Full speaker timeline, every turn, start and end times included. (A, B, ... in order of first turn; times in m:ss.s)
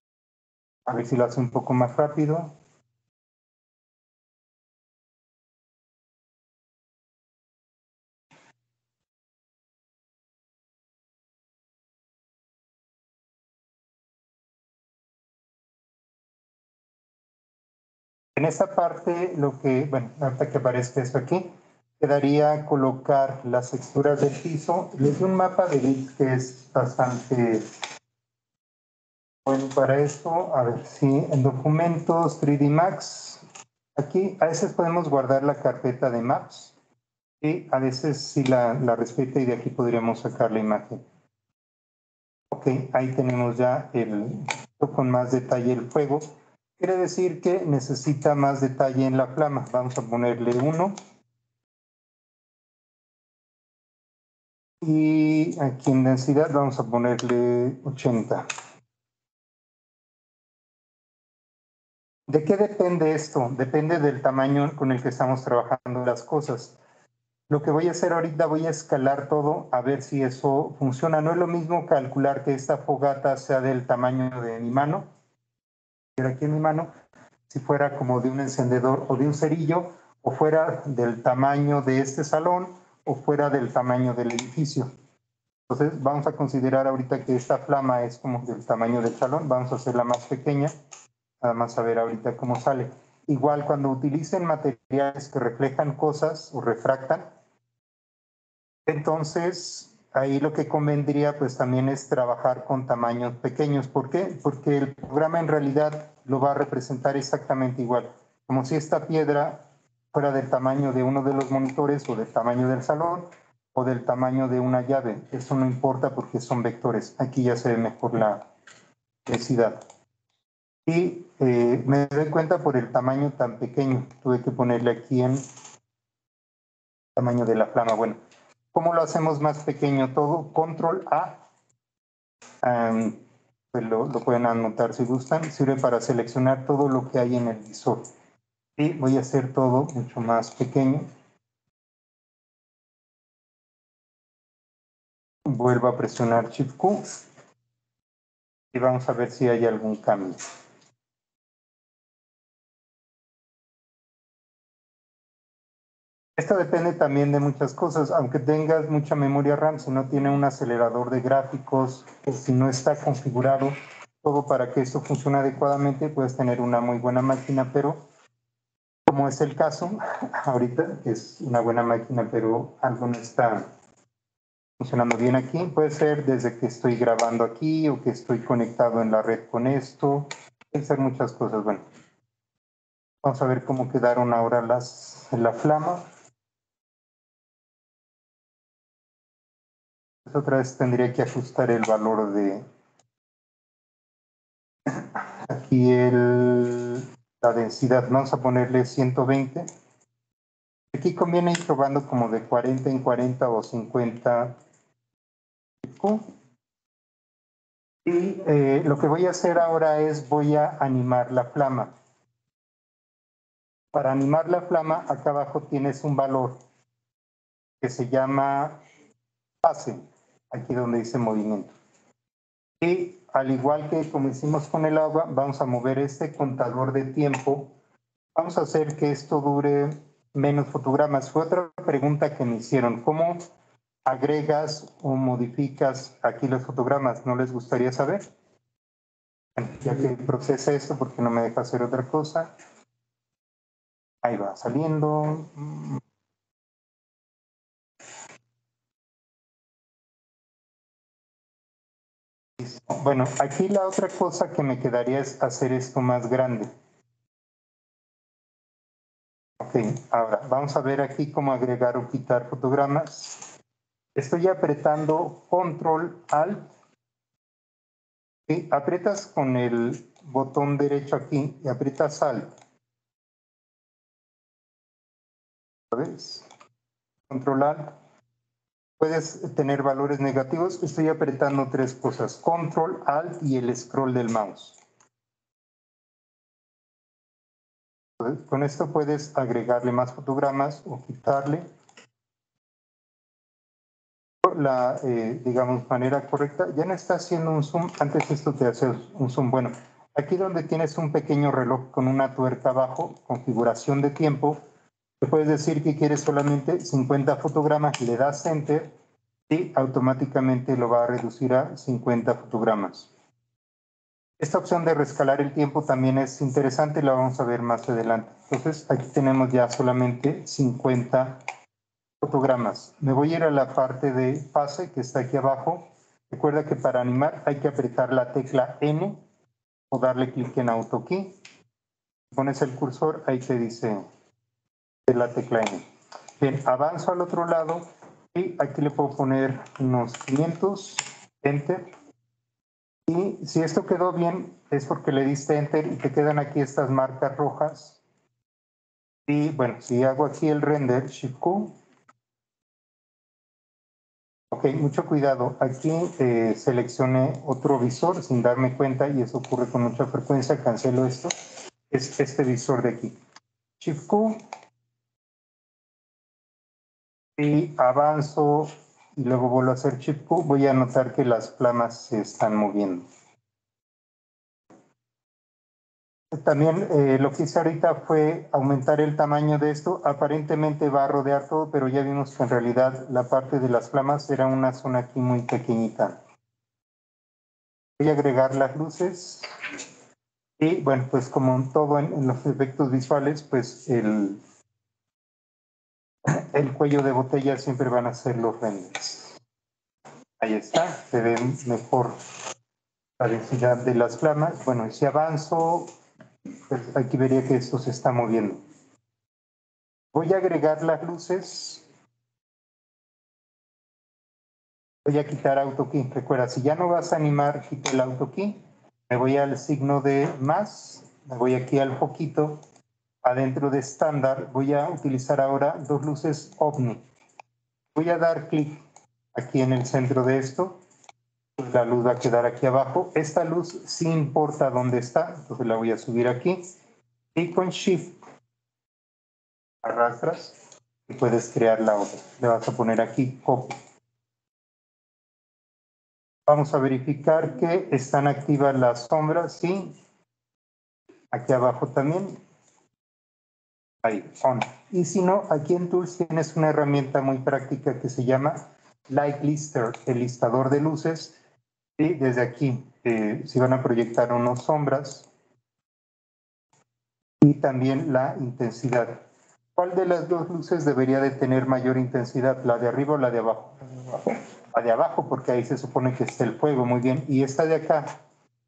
0:00.9-0:02.5 A
0:18.4-0:27.7 A
0:29.5-0:33.4 A
0:34.0-0:36.8 A
0:37.4-0:41.0 A
0:42.5-0:51.0 A
0:54.8-0:58.5 A
1:02.3-1:06.8 A
1:07.5-1:15.1 A
1:16.2-1:16.9 A
1:17.5-1:24.9 A
1:25.7-1:30.7 A
1:31.4-1:37.3 A
1:38.9-1:58.5 A
1:59.3-1:59.8 A
2:00.9-2:05.4 A
2:07.2-2:08.2 A
2:08.7-2:11.4 A
2:12.6-2:13.2 A
2:13.7-2:18.1 A
2:18.8-2:21.1 A
2:25.5-2:27.1 A
2:28.7-2:30.4 A
2:36.4-2:48.0 A
2:49.1-2:53.7 A
2:54.8-3:01.8 A
3:03.2-3:06.0 A
3:10.3-3:12.6 A
3:14.9-3:19.7 A
3:20.9-3:24.6 A
3:25.8-3:26.2 A
3:28.0-3:31.9 A
3:33.9-3:36.6 A
3:37.8-3:38.8 A
3:39.6-3:41.7 A
3:42.8-3:47.7 A
3:48.4-3:53.5 A
3:54.1-3:58.2 A
3:59.6-4:02.5 A
4:04.2-4:06.0 A
4:12.6-4:16.7 A
4:19.6-4:23.5 A
4:24.2-4:26.7 A
4:28.5-4:32.5 A
4:35.9-4:36.5 A
4:37.3-4:38.0 A
4:39.0-4:44.8 A
4:48.2-4:51.7 A
4:54.4-5:04.6 A
5:05.2-5:08.9 A
5:09.5-5:13.1 A
5:14.4-5:21.4 A
5:22.2-5:29.2 A
5:29.9-5:31.4 A
5:32.3-5:34.1 A
5:35.1-5:35.8 A
5:36.4-5:41.9 A
5:43.1-5:48.0 A
5:49.3-5:51.8 A
5:54.5-6:01.3 A
6:01.9-6:03.2 A
6:03.8-6:04.4 A
6:07.4-6:13.1 A
6:16.3-6:26.2 A
6:28.0-6:29.5 A
6:30.6-6:34.4 A
6:36.3-6:39.4 A
6:40.4-6:42.2 A
6:43.2-6:45.9 A
6:46.7-6:48.6 A
6:50.1-6:51.8 A
6:55.0-7:02.6 A
7:03.2-7:07.0 A
7:08.0-7:08.8 A
7:09.4-7:10.8 A
7:11.6-7:16.6 A
7:17.4-7:18.2 A
7:19.8-7:20.6 A
7:21.1-7:23.8 A
7:26.5-7:30.0 A
7:31.3-7:32.4 A
7:34.0-7:41.4 A
7:42.0-7:45.3 A
7:47.4-7:49.2 A
7:49.8-7:58.2 A